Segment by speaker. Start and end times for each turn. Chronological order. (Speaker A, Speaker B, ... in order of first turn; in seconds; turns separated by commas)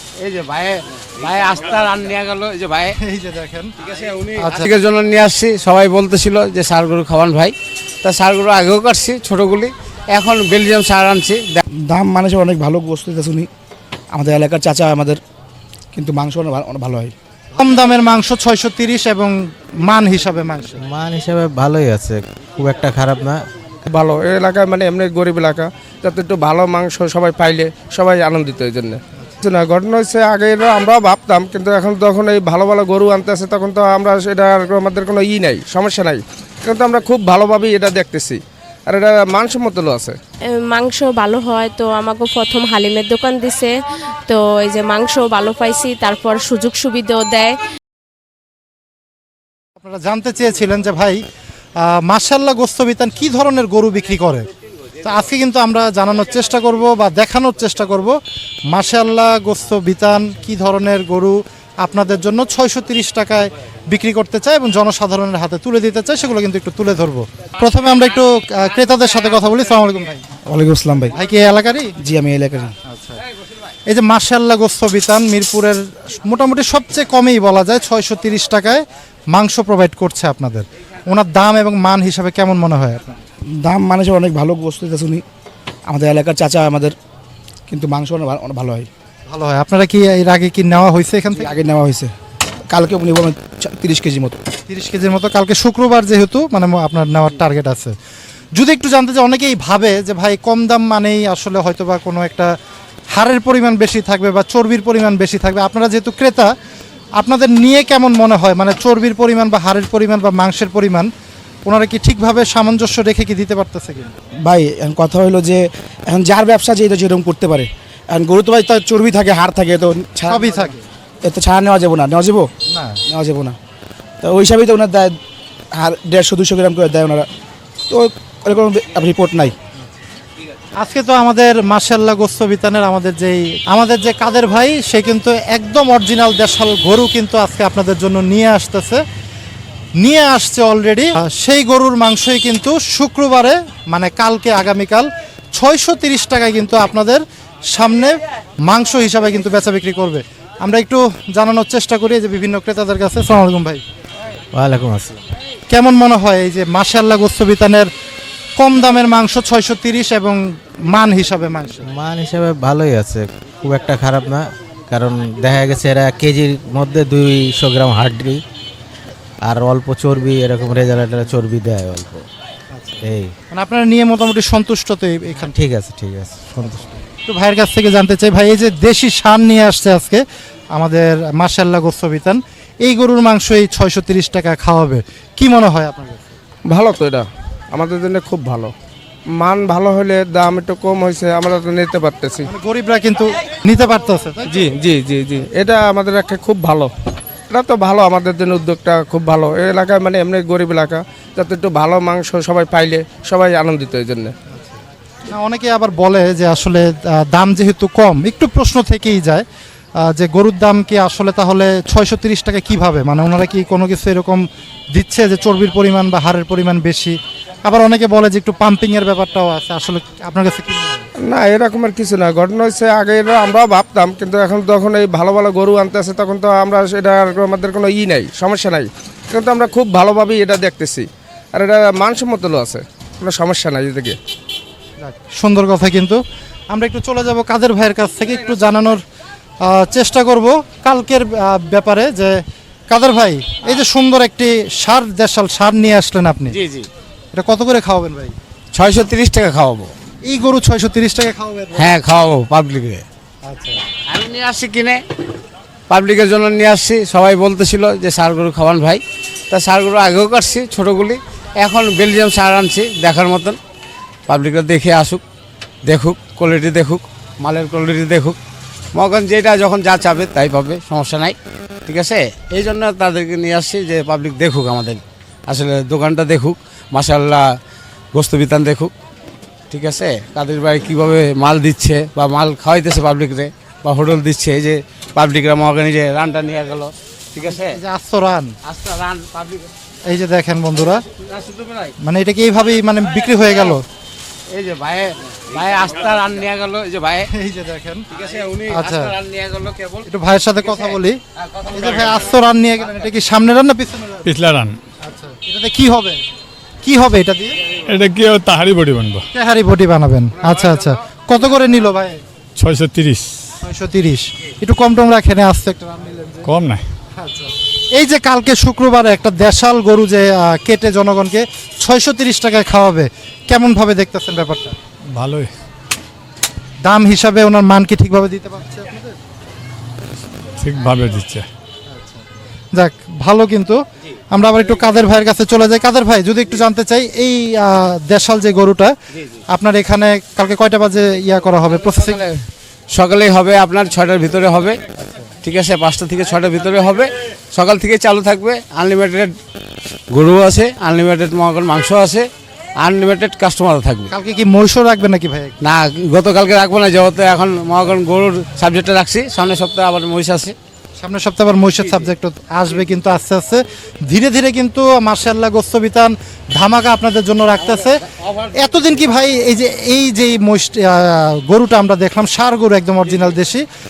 Speaker A: 0.2-3.0, Speaker B: 3.0-3.7, Speaker A: 3.8-11.6, Speaker B: 4.4-4.7, Speaker C: 11.9-13.5, Speaker C: 14.2-15.2, Speaker C: 15.9-17.1, Speaker B: 17.6-20.8, Speaker D: 20.8-23.4, Speaker E: 23.9-40.2, Speaker F: 40.7-43.7, Speaker F: 44.3-47.5, Speaker B: 49.8-51.2, Speaker B: 51.8-54.5, Speaker B: 55.0-58.2, Speaker B: 58.7-70.2, Speaker C: 70.5-71.2, Speaker B: 71.2-71.9, Speaker C: 72.0-72.7, Speaker B: 72.9-73.2, Speaker B: 73.9-78.8, Speaker B: 79.3-83.2, Speaker C: 83.7-85.2, Speaker C: 85.9-86.9, Speaker C: 87.7-88.9, Speaker B: 89.3-91.5, Speaker C: 91.4-92.1, Speaker C: 92.7-94.4, Speaker B: 94.7-97.9, Speaker B: 98.6-102.5, Speaker B: 103.2-106.5, Speaker B: 107.2-111.1, Speaker B: 111.7-114.1, Speaker C: 114.5-120.5, Speaker B: 120.3-120.8, Speaker C: 121.2-122.5, Speaker B: 122.7-123.0, Speaker C: 123.1-123.6, Speaker C: 124.2-125.1, Speaker C: 125.8-127.3, Speaker C: 127.9-129.5, Speaker B: 130.8-139.0, Speaker B: 140.0-147.2, Speaker B: 147.7-153.8, Speaker D: 154.5-155.2, Speaker B: 155.7-157.9, Speaker B: 158.6-160.4, Speaker B: 160.9-161.8, Speaker D: 161.8-168.4, Speaker D: 169.4-172.2, Speaker B: 172.7-173.0, Speaker D: 173.0-173.3, Speaker B: 173.5-175.6, Speaker D: 175.5-176.8, Speaker B: 176.6-180.2, Speaker B: 180.8-186.3, Speaker E: 186.7-188.7, Speaker E: 189.4-192.4, Speaker B: 192.5-194.7, Speaker E: 194.5-196.9, Speaker E: 197.5-204.3, Speaker B: 204.5-209.4, Speaker B: 210.1-214.4, Speaker B: 214.9-217.2, Speaker B: 217.7-221.1, Speaker E: 221.2-234.2, Speaker B: 235.0-236.2, Speaker B: 236.7-239.0, Speaker B: 239.7-242.4, Speaker B: 242.9-246.6, Speaker A: 246.5-246.9, Speaker B: 247.3-248.3, Speaker A: 248.8-249.9, Speaker B: 250.3-251.9, Speaker A: 251.8-253.0, Speaker B: 253.4-253.8, Speaker A: 254.1-255.0, Speaker A: 255.9-263.6, Speaker A: 264.3-265.2, Speaker A: 265.9-268.4, Speaker A: 268.9-271.4, Speaker A: 271.9-277.4, Speaker A: 278.1-278.9, Speaker A: 279.7-287.8, Speaker B: 287.4-288.5, Speaker A: 288.6-289.7, Speaker B: 290.1-291.0, Speaker A: 291.2-291.9, Speaker B: 292.0-293.9, Speaker A: 294.5-297.3, Speaker B: 297.3-298.1, Speaker A: 298.1-300.1, Speaker B: 298.7-299.1, Speaker B: 300.1-301.2, Speaker A: 300.7-302.4, Speaker B: 301.7-304.3, Speaker G: 304.3-304.8, Speaker B: 305.0-306.2, Speaker B: 306.8-307.6, Speaker G: 307.9-309.3, Speaker B: 309.3-312.2, Speaker G: 312.6-313.4, Speaker B: 313.6-316.5, Speaker G: 316.5-316.9, Speaker B: 317.2-324.8, Speaker G: 325.1-325.5, Speaker B: 326.9-329.2, Speaker G: 330.6-331.5, Speaker B: 331.9-332.2, Speaker B: 332.8-333.8, Speaker B: 334.3-338.9, Speaker B: 339.5-342.2, Speaker A: 341.7-342.4, Speaker A: 342.9-344.8, Speaker B: 345.0-345.3, Speaker A: 345.4-349.3, Speaker A: 350.1-352.3, Speaker A: 352.8-354.1, Speaker B: 354.1-355.6, Speaker A: 355.6-360.6, Speaker B: 361.0-368.0, Speaker A: 367.8-368.6, Speaker B: 368.5-373.6